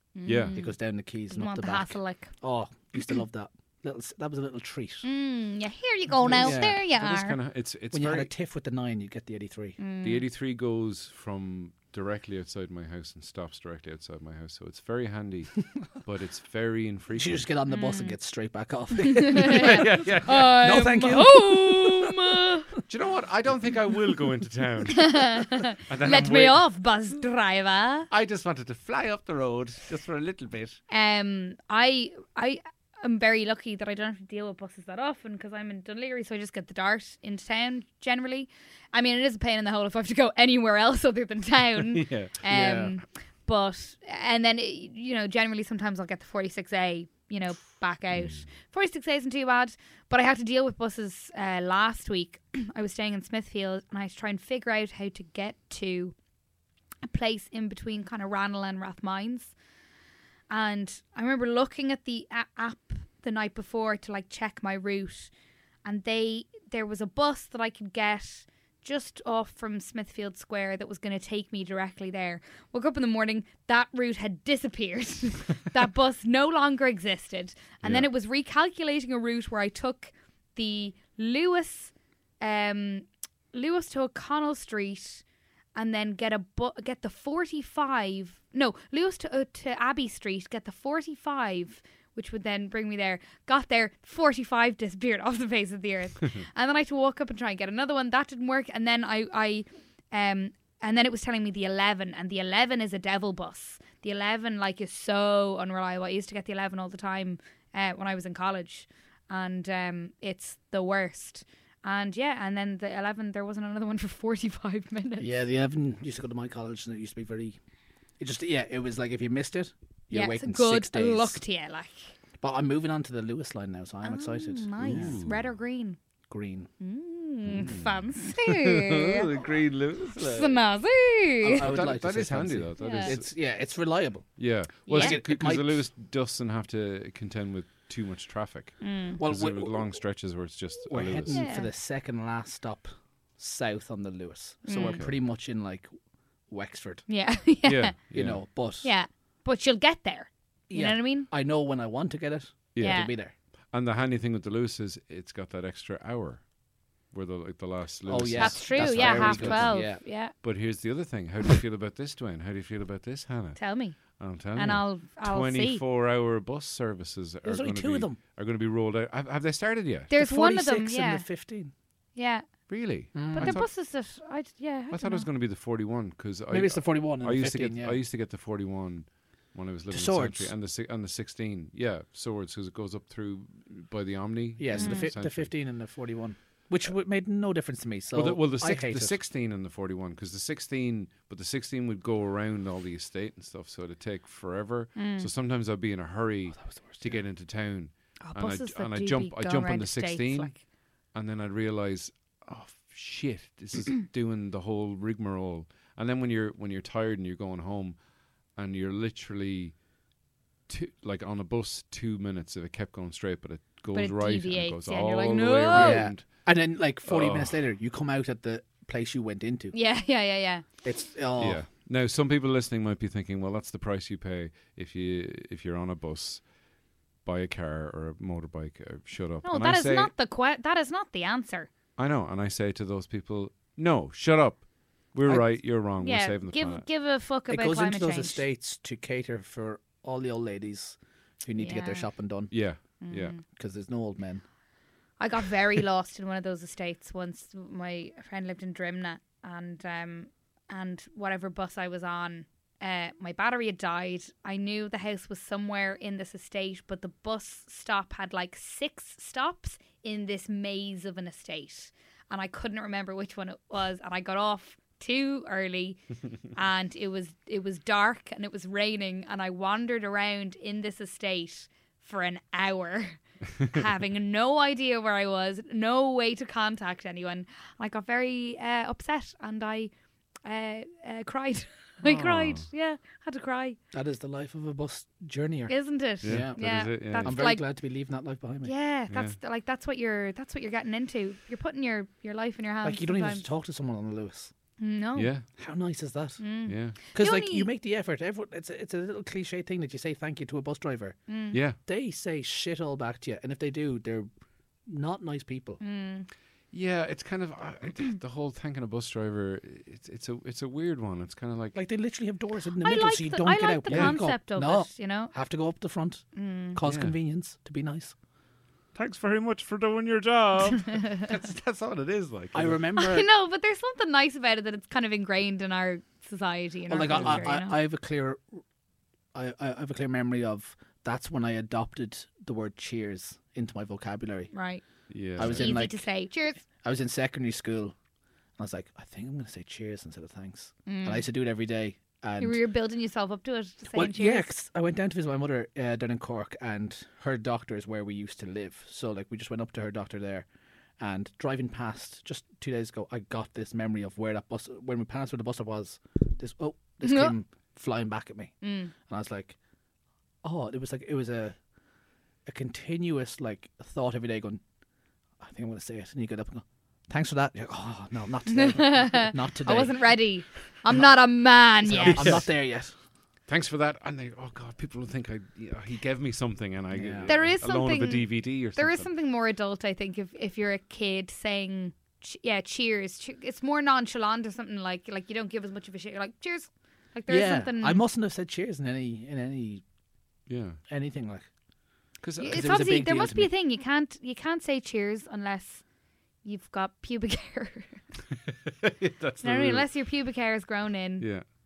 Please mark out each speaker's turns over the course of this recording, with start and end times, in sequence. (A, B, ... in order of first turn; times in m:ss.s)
0:00.2-0:00.7 A
0:00.2-0:00.6 B
0:00.5-0:05.0 C
0:01.3-0:02.3 A
0:05.0-0:07.4 A
0:06.2-0:06.8 C
0:06.4-0:08.3 B
0:07.9-0:09.8 C
0:09.8-0:10.2 A
0:10.0-0:17.5 B
0:17.1-0:20.0 C
0:17.7-0:18.1 A
0:19.1-0:22.7 A
0:19.4-0:20.9 B
0:20.5-0:22.4 C
0:22.9-0:25.3 B
0:25.0-0:28.1 A
0:25.9-0:26.6 B
0:28.1-0:30.8 B
0:30.9-0:56.1 A
0:41.8-0:42.8 B
0:42.5-0:42.9 C
0:48.2-0:48.4 B
0:57.0-0:59.5 A
1:00.5-1:05.3 A
1:05.8-1:25.2 A
1:17.8-1:18.1 B
1:25.8-1:55.3 A
1:55.2-1:57.6 C
1:58.2-2:01.4 C
2:00.1-2:02.1 A
2:02.4-2:05.2 C
2:04.0-2:06.0 A
2:04.8-2:05.5 B
2:06.3-2:06.7 C
2:06.8-2:09.3 A
2:07.4-2:10.6 B
2:10.2-2:11.7 A
2:11.4-2:15.8 C
2:11.6-2:13.3 B
2:12.8-2:13.1 A
2:14.4-2:21.4 B
2:14.9-2:15.2 A
2:18.8-2:19.2 A
2:19.2-2:19.9 C
2:20.9-2:25.9 C
2:21.3-2:21.7 A
2:24.6-2:25.0 A
2:24.8-2:25.1 B
2:26.5-2:27.0 C
2:27.1-2:27.9 A
2:27.6-2:28.4 B
2:28.1-2:28.9 C
2:28.8-2:31.3 A
2:30.7-2:33.3 C
2:32.7-2:33.1 B
2:32.8-2:33.1 A
2:33.7-2:36.5 B
2:37.1-2:50.1 B
2:38.0-2:40.0 C
2:38.4-2:40.3 A
2:43.6-2:45.8 A
2:47.4-2:48.2 C
2:50.1-2:51.2 A
2:50.1-2:51.7 C
2:52.1-2:52.7 A
2:52.7-2:53.7 B
2:53.1-2:53.6 C
2:53.3-2:55.2 A
2:54.9-3:05.5 B
2:56.5-2:58.0 C
2:59.9-3:00.5 C
3:04.6-3:09.2 C
3:04.7-3:05.1 A
3:08.1-3:20.6 B
3:15.0-3:15.3 A
3:16.5-3:17.2 C
3:18.2-3:20.6 A
3:21.1-3:28.0 B
3:28.6-3:29.8 B
3:30.7-3:36.2 B
3:33.9-3:36.1 A
3:35.7-3:39.7 C
3:37.0-3:37.6 B
3:39.7-3:40.6 A
3:40.8-3:41.6 C
3:41.4-3:46.5 B
3:47.2-3:50.1 B
3:49.4-3:51.7 A
3:52.0-3:56.8 B
3:56.0-3:58.4 A
3:57.5-4:02.5 C
4:01.6-4:02.1 A
4:02.5-4:03.4 B
4:03.0-4:03.4 A
4:03.5-4:04.4 C
4:05.2-4:39.9 A
4:40.4-4:43.8 A
4:42.0-4:42.7 B
4:43.9-4:48.7 C
4:45.7-4:47.6 A
4:46.2-4:47.4 B
4:48.6-4:53.4 A
4:52.8-4:54.5 C
4:54.8-4:55.3 A
4:55.2-4:55.4 B
4:55.6-4:56.4 C
4:56.4-4:57.7 A
4:56.7-4:57.0 B
4:57.1-5:01.2 C
5:01.3-5:01.6 A
5:01.5-5:01.8 B
5:01.7-5:04.3 C
5:04.9-5:05.8 C
5:05.8-5:06.3 A
5:06.7-5:11.8 B
5:11.7-5:18.1 C
5:12.8-5:15.3 A
5:13.9-5:14.2 B
5:16.4-5:16.8 A
5:16.9-5:17.1 B
5:18.9-5:22.8 B
5:22.5-5:23.3 C
5:23.0-5:27.8 A
5:26.9-5:28.4 C
5:27.1-5:27.4 B
5:29.3-5:34.5 C
5:34.5-5:34.8 A
5:35.1-5:35.8 B
5:35.4-5:36.1 C
5:35.4-5:36.6 A
5:36.8-5:37.9 C
5:38.6-5:42.6 C
5:40.9-5:41.2 A
5:42.4-5:44.5 A
5:43.9-5:50.5 C
5:51.0-5:59.6 C
5:57.0-5:57.3 A
5:58.6-5:58.9 A
6:00.4-6:01.6 C
6:02.4-6:04.6 C
6:05.4-6:10.1 C
6:08.5-6:12.4 A
6:11.8-6:12.9 C
6:12.0-6:12.4 B
6:13.5-6:19.1 B
6:16.9-6:17.3 C
6:17.2-6:28.0 A
6:27.3-6:29.8 C
6:30.5-6:30.8 B
6:30.9-6:31.5 C
6:32.2-6:32.6 B
6:32.4-6:35.8 A
6:32.4-6:33.5 C
6:36.4-6:38.0 A
6:38.7-6:39.9 B
6:39.4-6:41.2 A